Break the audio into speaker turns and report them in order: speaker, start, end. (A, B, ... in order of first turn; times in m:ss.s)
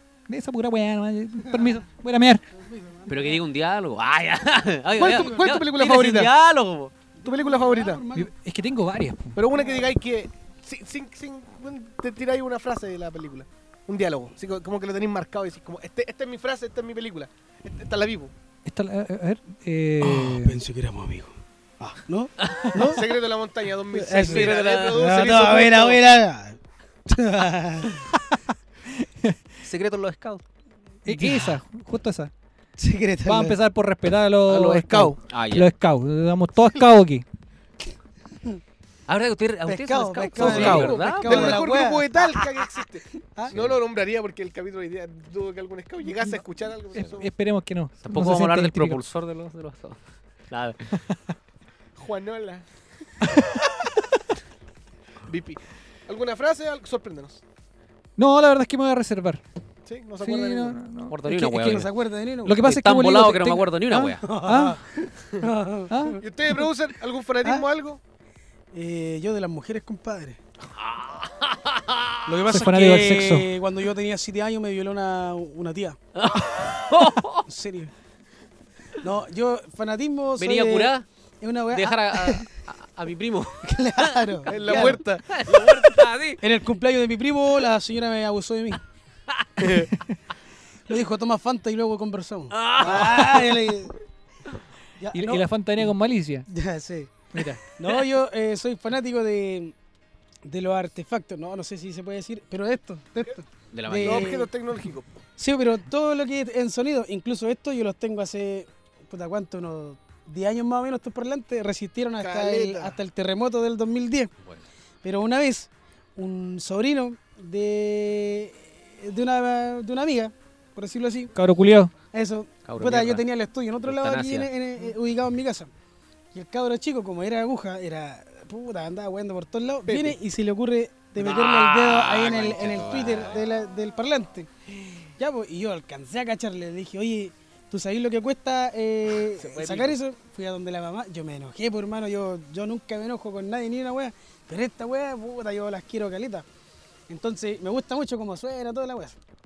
0:00.3-0:02.4 A
0:02.5-0:03.4 B
0:03.1-0:06.9 C
0:05.0-0:06.3 D
0:05.0-0:05.6 B
0:07.2-0:08.3 B
0:07.2-0:08.0 D
0:08.1-0:09.4 A
0:09.4-0:18.3 D
0:09.6-0:09.9 B
0:18.7-0:20.6 A
0:20.0-0:23.0 B
0:22.4-0:22.7 C
0:22.7-0:26.0 D
0:23.9-0:28.0 B
0:24.3-0:25.0 C
0:28.9-0:29.4 A
0:29.6-0:30.4 C
0:31.1-0:32.3 A
0:31.1-0:31.6 B
0:32.8-0:33.6 B
0:33.2-0:37.2 A
0:34.5-0:35.2 D
0:35.3-0:35.7 C
0:39.1-0:41.6 C
0:39.7-0:42.5 B
0:40.4-0:41.0 A
0:40.4-0:47.3 D
0:43.1-0:43.5 B
0:43.5-0:43.8 C
0:47.0-0:49.0 A
0:48.0-0:50.0 C
0:50.5-0:51.0 C
0:52.0-0:52.6 D
0:55.3-0:57.4 D
0:58.2-0:59.4 A
0:59.9-1:00.8 D
1:00.2-1:01.8 A
1:01.1-1:01.9 C
1:01.5-1:02.6 B
1:02.4-1:04.8 A
1:02.6-1:04.2 C
1:04.2-1:06.2 B
1:05.9-1:06.2 A
1:06.2-1:08.0 D
1:07.4-1:07.7 B
1:08.7-1:10.4 B
1:10.8-1:12.4 C
1:12.3-1:16.0 B
1:12.5-1:13.5 A
1:16.1-1:17.5 C
1:17.5-1:17.9 B
1:19.0-1:22.5 B
1:20.4-1:21.1 C
1:21.7-1:26.4 C
1:23.6-1:25.0 B
1:24.5-1:25.9 D
1:26.4-1:28.8 B
1:29.3-1:29.8 C
1:30.9-1:34.0 B
1:32.5-1:33.7 C
1:32.8-1:33.1 D
1:35.0-1:35.9 B
1:35.1-1:36.5 A
1:36.5-1:37.2 B
1:37.3-1:37.6 A
1:37.7-1:39.8 B
1:40.4-1:44.5 B
1:43.7-1:44.4 C
1:44.0-1:45.1 D
1:45.4-1:54.3 B
1:52.2-1:53.0 D
1:55.0-2:01.3 B
2:01.4-2:01.9 A
2:02.1-2:05.7 B
2:02.7-2:03.2 C
2:03.8-2:04.5 C
2:06.3-2:14.5 B
2:09.9-2:10.2 D
2:11.2-2:13.4 C
2:15.2-2:26.4 B
2:19.3-2:20.0 D
2:27.1-2:29.2 B